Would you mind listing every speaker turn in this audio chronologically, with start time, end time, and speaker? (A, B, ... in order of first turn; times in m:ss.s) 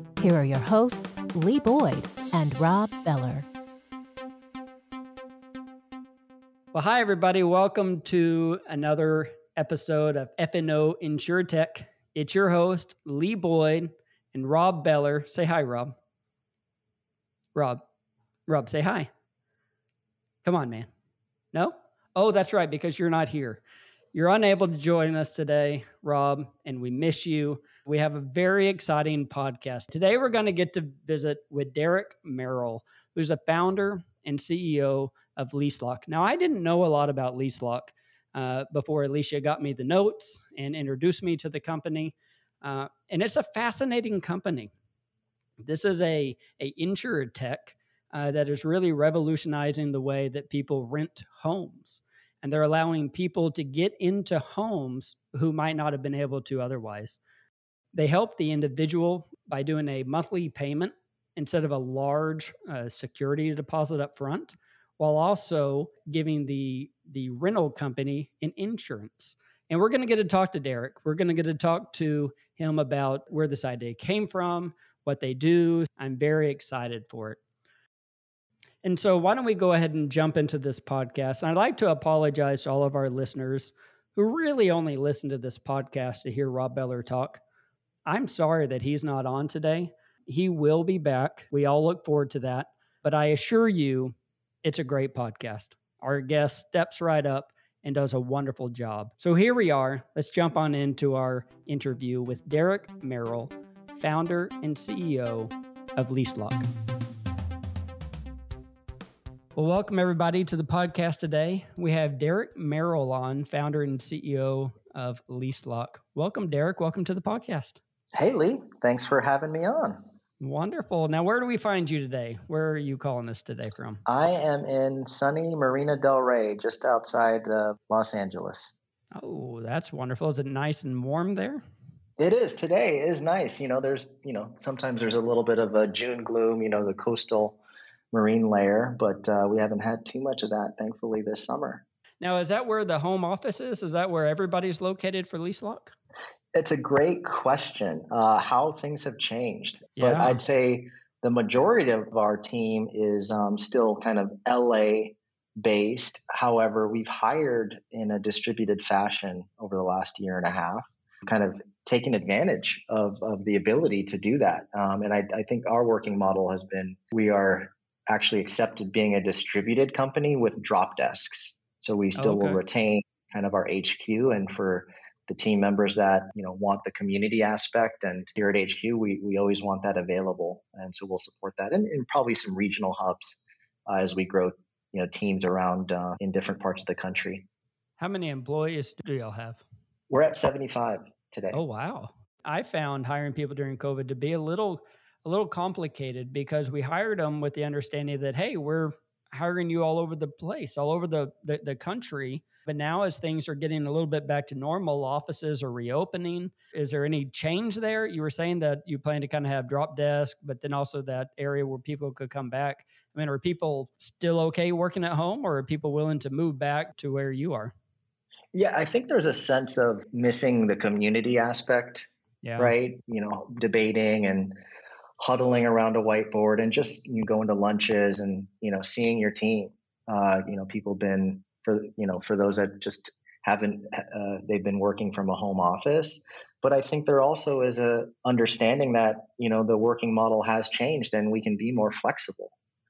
0:00.2-0:03.5 A
0:06.7-0:16.0 B
0:17.6-0:17.8 B
0:18.5-0:19.1 B
0:20.4-0:20.9 B
0:21.5-0:23.6 B
0:24.1-0:44.7 B
0:45.6-0:57.2 B
0:57.9-1:17.4 B
1:18.8-1:27.4 B
1:28.1-1:46.7 B
1:49.6-1:57.8 B
1:58.1-2:00.0 C
2:00.4-2:04.0 B
2:04.1-2:08.7 C
2:09.1-2:11.6 B
2:12.2-2:17.6 C
2:18.1-2:21.8 C
2:22.2-2:25.9 B
2:26.6-3:07.5 C
2:30.0-2:30.4 B
2:52.2-2:52.6 B
3:08.0-3:09.6 B
3:10.1-3:11.6 C
3:11.5-3:37.7 B
3:38.5-3:42.1 C
3:42.4-3:42.7 B
3:42.6-3:44.6 C
3:45.2-4:02.5 C